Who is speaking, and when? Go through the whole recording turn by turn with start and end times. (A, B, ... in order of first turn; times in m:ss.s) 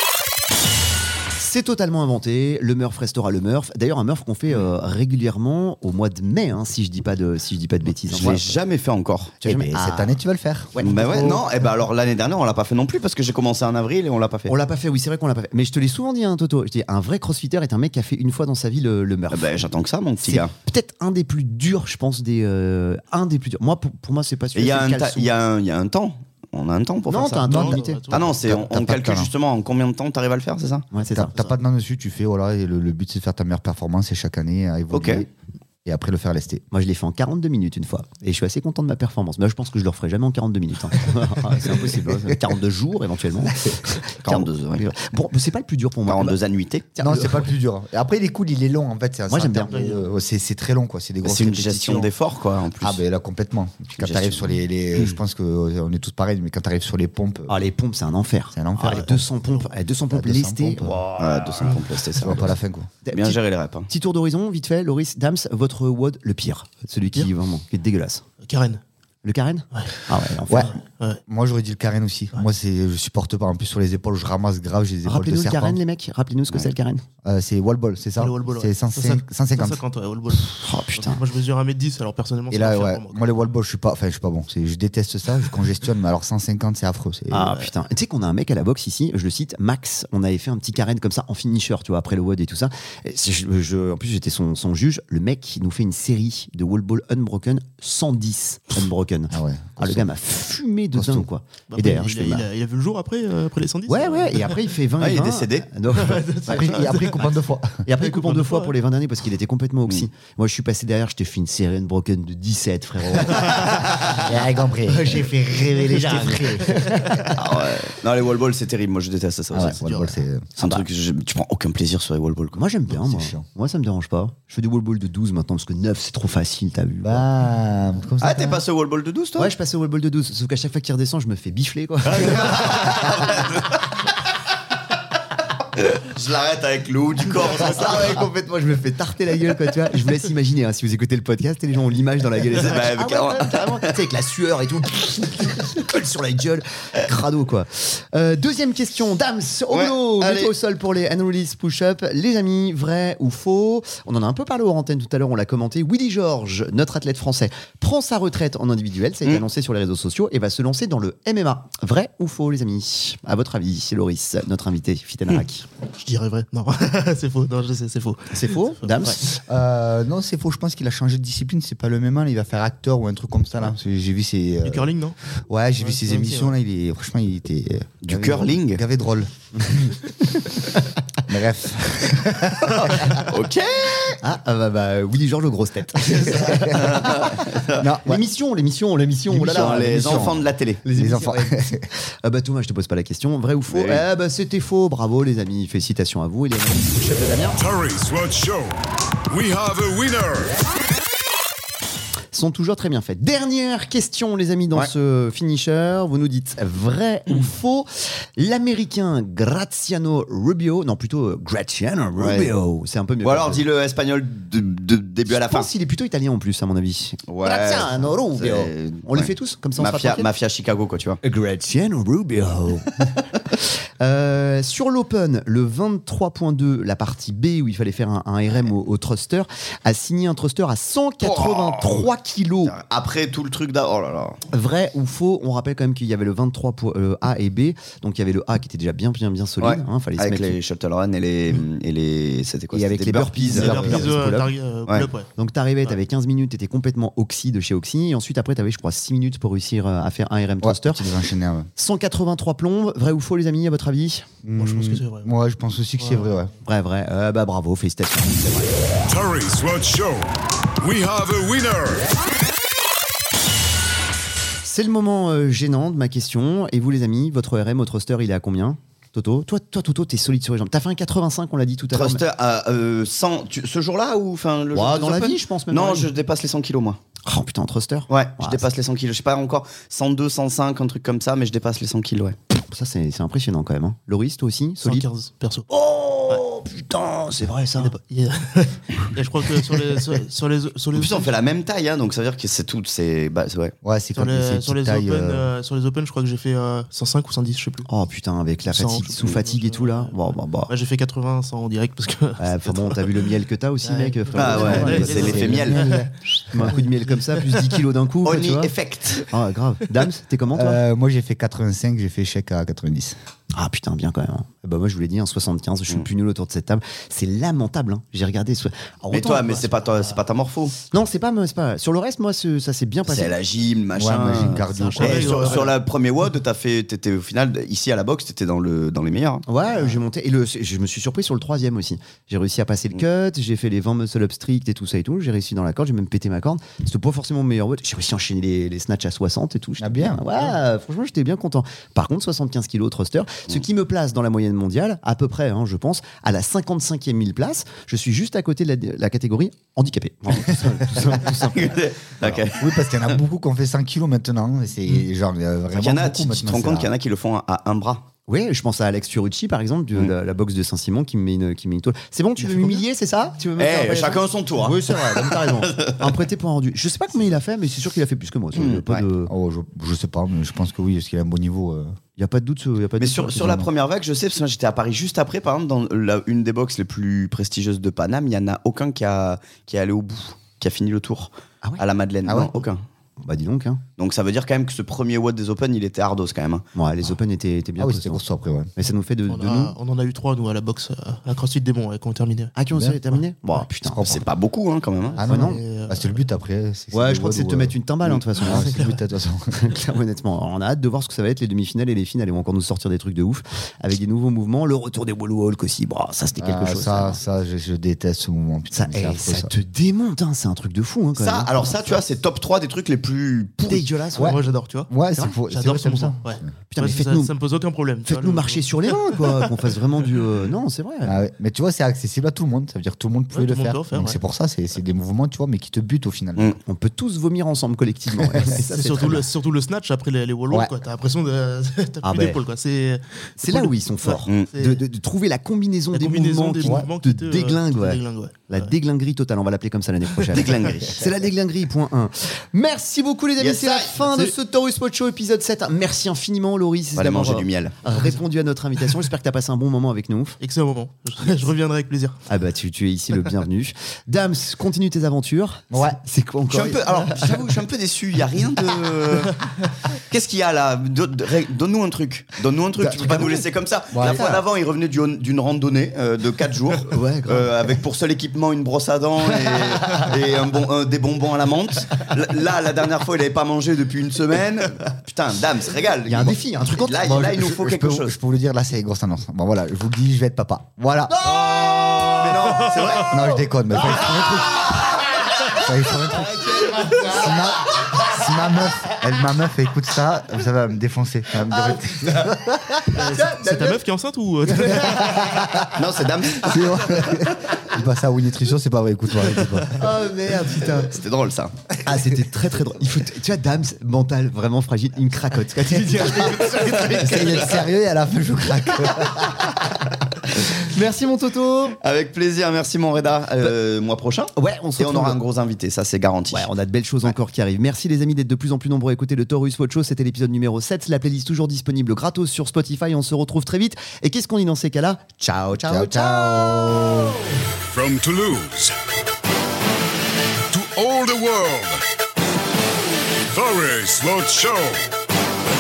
0:01.4-0:08.6 A
0:08.1-0:09.4 B
0:09.4-0:10.8 C
0:09.4-0:10.2 A
0:10.7-0:11.4 A
0:10.8-0:14.5 B
0:14.5-0:19.5 A
0:19.3-0:20.5 B
0:20.2-0:25.3 A
0:24.6-0:30.9 B
0:27.1-0:28.0 A
0:27.2-0:28.4 D
0:28.1-0:29.3 C
0:30.9-0:31.3 A
0:31.1-0:35.3 C
0:34.9-0:35.2 B
0:35.8-0:36.6 C
0:36.7-0:46.4 A
0:41.5-0:42.4 C
0:44.2-0:45.1 B
0:46.1-0:46.9 B
0:46.9-0:47.5 A
0:47.0-0:52.1 C
0:49.3-0:49.7 A
0:49.7-0:50.0 D
0:51.2-0:53.0 B
0:52.8-0:57.6 C
0:54.0-0:55.2 B
0:57.5-1:01.7 A
0:58.5-0:59.5 C
1:00.1-1:01.0 C
1:01.2-1:02.5 B
1:02.2-1:02.9 C
1:03.0-1:08.2 A
1:03.1-1:03.9 B
1:08.4-1:08.8 D
1:09.2-1:10.8 A
1:10.5-1:10.8 C
1:10.6-1:11.2 D
1:11.3-1:15.8 C
1:15.0-1:17.0 A
1:17.2-1:19.8 C
1:18.2-1:23.2 D
1:20.4-1:21.2 A
1:22.5-1:27.6 C
1:27.3-1:42.5 A
1:39.3-1:40.1 C
1:40.9-1:41.3 C
1:41.7-1:44.6 D
1:43.9-1:46.7 A
1:45.0-1:45.7 B
1:45.9-1:47.4 D
1:46.4-1:47.8 C
1:47.8-1:54.2 A
1:48.0-1:48.8 D
1:54.1-1:57.4 C
1:54.9-1:56.7 A
1:56.9-1:57.3 D
1:57.3-1:59.8 B
1:59.5-2:00.5 C
1:59.6-2:00.2 D
2:00.6-2:02.6 B
2:00.6-2:00.8 A
2:02.5-2:07.2 A
2:02.9-2:03.4 C
2:07.0-2:08.6 C
2:08.2-2:09.5 B
2:09.4-2:13.3 A
2:12.1-2:14.0 B
2:15.8-2:18.3 B
2:17.6-2:45.7 A
2:22.6-2:23.9 B
2:29.7-2:30.5 B
2:45.9-2:49.2 D
2:48.3-2:49.2 A
2:49.2-2:54.9 C
2:54.6-2:55.2 D
2:55.5-3:00.6 C
2:55.8-2:56.6 D
2:58.0-2:58.8 B
3:01.2-3:03.2 C
3:02.8-3:04.2 B
3:04.2-3:07.4 A
3:06.1-3:08.2 C
3:06.7-3:07.9 B
3:08.0-3:17.6 A
3:09.3-3:10.8 B
3:09.4-3:10.4 C
3:10.9-3:11.9 C
3:13.7-3:14.0 B
3:17.6-3:18.8 E
3:19.3-3:20.6 E
3:22.3-3:33.6 A
3:32.2-3:32.5 B
3:33.2-3:35.7 B
3:35.3-3:40.3 A
3:37.3-3:41.2 B
3:41.2-3:43.3 A
3:44.0-3:52.8 A
3:51.2-3:52.1 B
3:52.6-3:54.4 B
3:54.5-4:00.6 A
3:59.6-4:04.2 B
4:02.7-4:04.5 A
4:03.4-4:05.3 D
4:05.4-4:11.0 A
4:10.6-4:11.7 C
4:11.8-4:14.3 A
4:14.4-4:16.5 C
4:14.6-4:15.3 D
4:16.0-4:16.5 D
4:16.6-4:18.7 A
4:19.1-4:22.1 E
4:24.6-4:32.2 A
4:31.9-4:37.0 B
4:34.7-4:36.1 A
4:37.2-4:38.7 A
4:38.1-4:42.4 B
4:42.6-4:45.0 A
4:44.8-4:45.7 D
4:45.7-4:48.0 A
4:47.8-4:51.3 D
4:50.9-4:53.7 B
4:53.8-4:55.5 C
4:54.2-4:57.9 D
4:57.9-5:00.7 A
4:58.7-5:03.3 D
5:02.4-5:05.7 A
5:03.8-5:07.8 D
5:04.3-5:05.9 B
5:04.5-5:06.2 C
5:06.5-5:08.7 A
5:08.2-5:09.3 B
5:09.3-5:10.8 A
5:10.5-5:13.2 C
5:13.5-5:19.8 A
5:19.1-5:20.8 B
5:20.9-5:23.3 A
5:23.1-5:29.4 B
5:23.9-5:25.6 C
5:24.6-5:25.7 A
5:25.0-5:25.8 D
5:29.5-5:52.4 A
5:39.8-5:40.4 C
5:50.4-5:50.9 C
5:51.5-5:52.9 B
5:52.2-5:56.9 C
5:55.7-5:58.1 B
5:58.3-6:09.3 A
6:03.6-6:06.2 B
6:08.6-6:09.0 B
6:09.3-6:12.0 C
6:12.2-6:13.7 A
6:13.0-6:22.8 B
6:22.2-6:22.6 C
6:23.2-6:23.8 A
6:24.0-6:26.7 B
6:26.8-6:28.2 A
6:27.8-6:28.7 C
6:28.8-6:29.8 A
6:29.3-6:32.6 D
6:32.6-6:34.1 A
6:32.7-6:33.0 C
6:33.8-6:34.3 C
6:34.0-6:35.2 B
6:35.1-6:36.2 D
6:35.2-6:37.8 C
6:35.2-6:35.6 A
6:36.9-6:38.7 A
6:38.4-6:39.6 C
6:38.4-6:39.0 D
6:39.5-6:47.2 A
6:46.4-6:49.5 C
6:48.7-6:52.0 A
6:51.2-6:53.9 B
6:53.7-6:54.4 A
6:54.2-6:54.9 D
6:54.2-6:56.3 C
6:55.5-6:59.3 D
6:56.7-6:57.3 A
6:58.1-7:01.2 A
7:01.0-7:06.5 C
7:03.3-7:04.2 D
7:06.6-7:09.3 A
7:08.2-7:08.5 C
7:08.5-7:14.8 D
7:12.0-7:12.4 A
7:13.4-7:30.4 A
7:15.9-7:18.7 D
7:16.6-7:16.9 C
7:20.3-7:21.1 B
7:23.4-7:24.3 B
7:27.0-7:27.8 B
7:30.4-7:32.2 D
7:32.3-7:37.4 A
7:35.7-7:36.0 C
7:36.5-7:58.2 B
7:42.8-7:43.4 A
7:43.9-7:44.3 C
7:44.0-7:44.4 A
7:46.8-7:47.5 A
7:56.1-7:57.6 A
7:57.6-8:01.4 C
8:01.1-8:02.7 A
8:02.2-8:03.2 B
8:03.0-8:04.7 C
8:03.9-8:05.0 A
8:05.5-8:12.9 C
8:06.4-8:07.3 A
8:11.5-8:13.8 A
8:12.9-8:15.3 D
8:14.5-8:15.1 A
8:14.5-8:15.7 C
8:15.8-8:17.0 B
8:16.3-8:20.0 C
8:19.8-8:20.9 A
8:20.9-8:21.5 B
8:21.8-8:27.6 A
8:25.7-8:29.9 C
8:29.0-8:29.4 A
8:30.5-8:31.8 A
8:31.8-8:36.5 B
8:34.4-8:35.2 A
8:36.3-8:47.1 A
8:45.6-8:47.2 C
8:47.7-8:48.8 E
8:50.5-8:51.8 E
8:53.3-8:54.8 E